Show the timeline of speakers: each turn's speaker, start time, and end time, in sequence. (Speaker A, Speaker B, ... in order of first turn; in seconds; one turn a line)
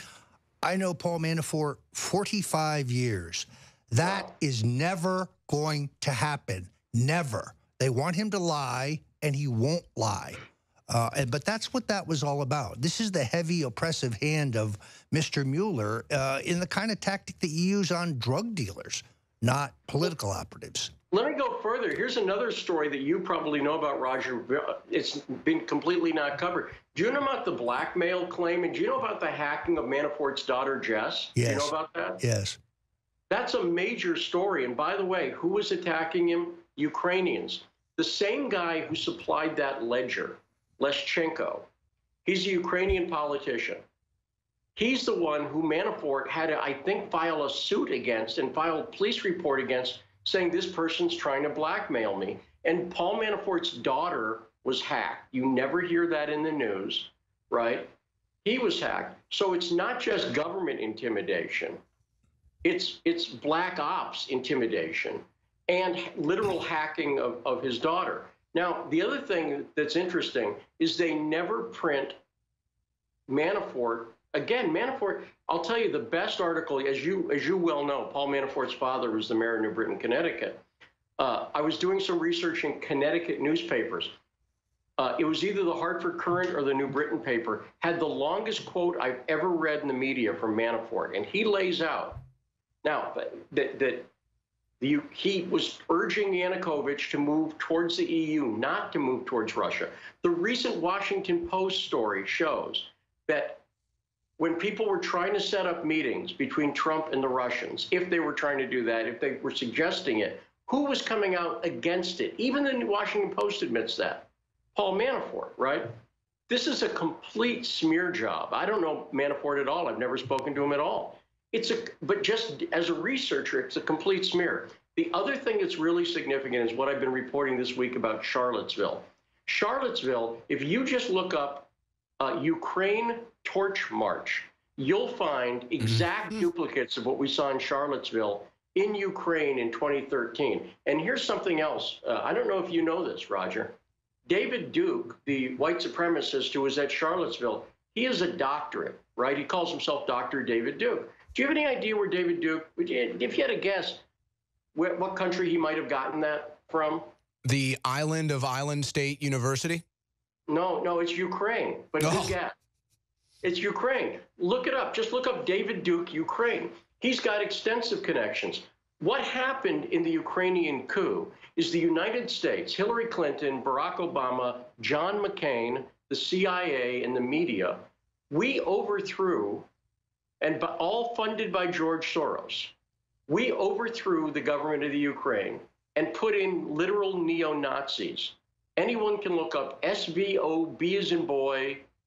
Speaker A: 0.6-20.9
Speaker B: 21.1-32.2
Speaker A: 31.4-32.6
Speaker B: 33.3-41.7
Speaker B: 42.2-43.8
Speaker B: 44.8-57.9
Speaker B: 58.4-61.8
Speaker B: 62.6-72.2
Speaker B: 73.3-80.6
Speaker B: 81.2-84.1
Speaker B: 85.0-92.2
Speaker B: 92.8-94.1
Speaker B: 94.8-103.6
Speaker B: 104.4-115.9
Speaker B: 116.5-143.8
Speaker B: 144.3-154.0
Speaker B: 154.7-157.1
Speaker C: 157.4-159.8
Speaker B: 160.5-162.6
Speaker C: 162.0-162.3
Speaker B: 163.4-179.7
Speaker B: 180.4-182.7
Speaker B: 183.3-191.8